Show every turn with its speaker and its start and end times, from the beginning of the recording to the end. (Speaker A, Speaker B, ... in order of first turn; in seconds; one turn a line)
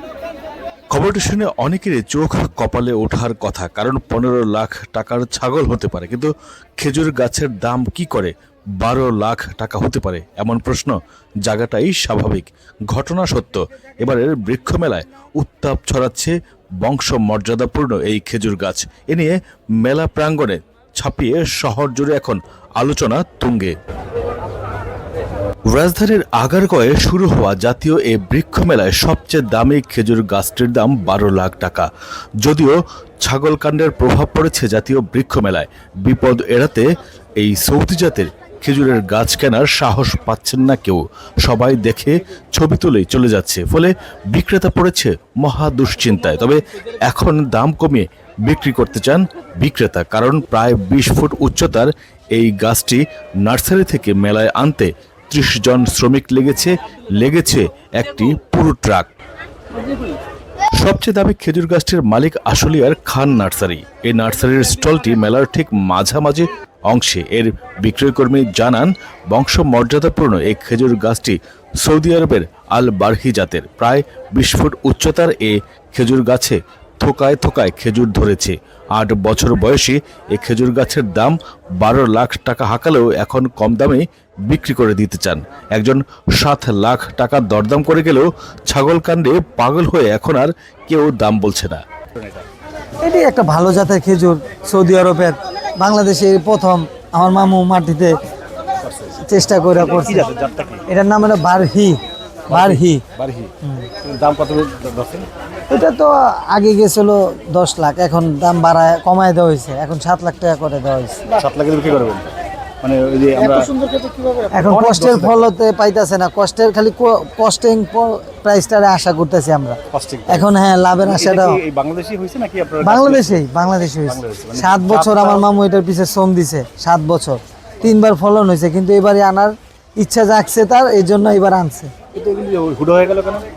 Speaker A: 0.9-23.7
Speaker A: 25.7-31.9
Speaker A: 32.4-59.1
Speaker A: 60.8-91.8
Speaker B: 93.0-98.2
Speaker C: 98.8-99.2
Speaker B: 99.2-100.3
Speaker C: 99.7-100.8
Speaker B: 100.9-102.0
Speaker C: 102.5-105.3
Speaker B: 102.5-103.0
Speaker B: 105.7-111.2
Speaker C: 111.3-112.3
Speaker C: 112.8-115.4
Speaker B: 114.5-119.8
Speaker C: 119.9-120.5
Speaker B: 120.3-121.6
Speaker C: 121.0-123.4
Speaker B: 122.8-131.9
Speaker C: 124.0-125.4
Speaker C: 132.1-133.4